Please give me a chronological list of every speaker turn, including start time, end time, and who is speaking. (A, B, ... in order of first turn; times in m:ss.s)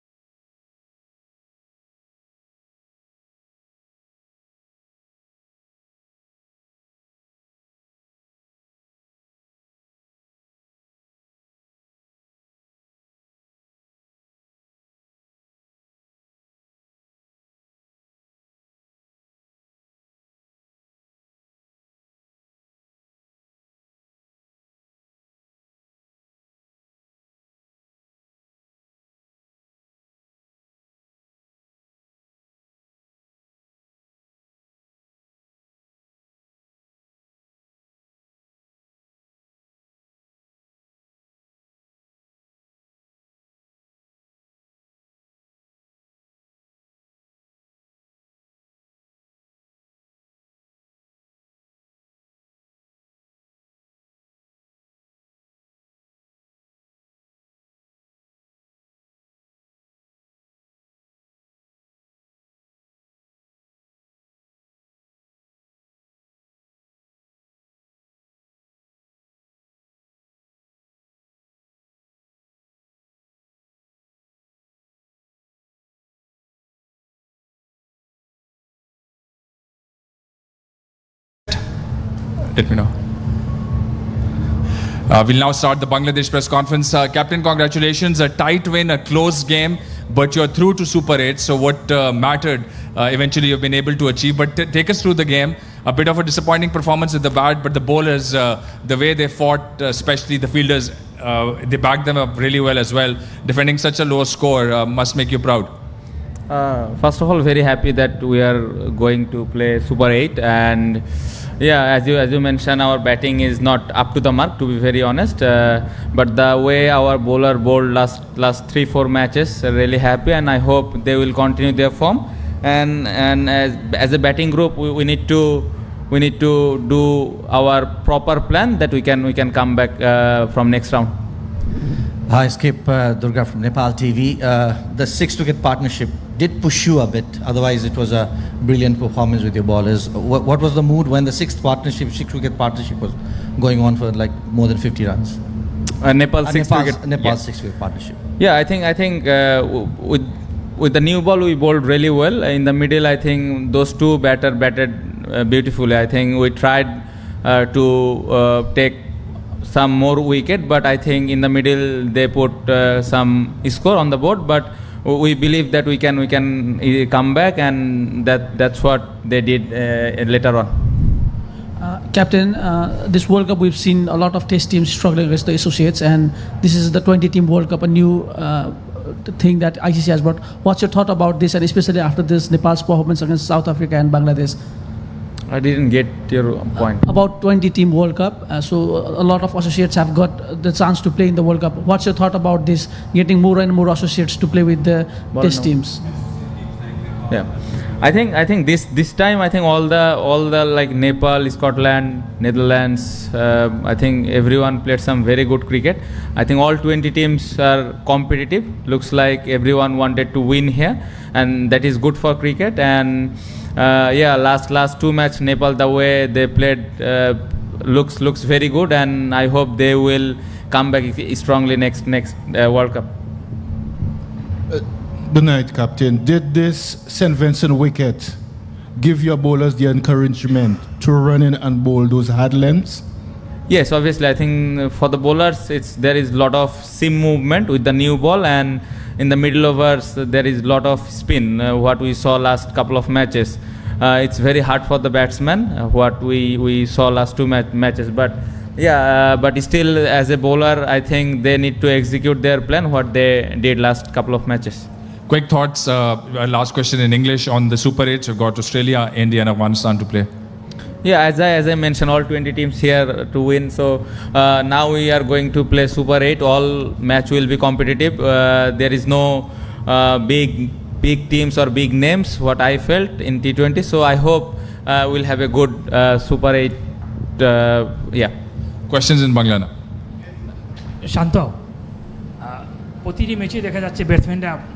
1:22.5-1:22.9 A
1:25.1-1:45.7 A
1:46.5-1:51.0 B
1:51.6-2:11.1 B
2:12.3-2:25.4 C
2:26.0-2:27.4 B
2:26.4-2:28.2 C
2:28.4-2:39.0 B
2:39.6-2:50.7 B
2:51.8-3:04.6 D
3:05.5-3:07.1 B
3:07.0-3:16.0 D
3:15.4-3:15.7 B
3:18.0-3:43.1 B
3:45.4-3:48.2 E
3:49.0-3:53.0 E
3:53.7-4:14.9 B
4:15.3-4:20.3 A
4:21.0-4:36.8 B
4:37.4-4:38.3 B
4:38.9-4:39.7 A
4:41.1-4:41.5 F
4:42.4-4:44.6 F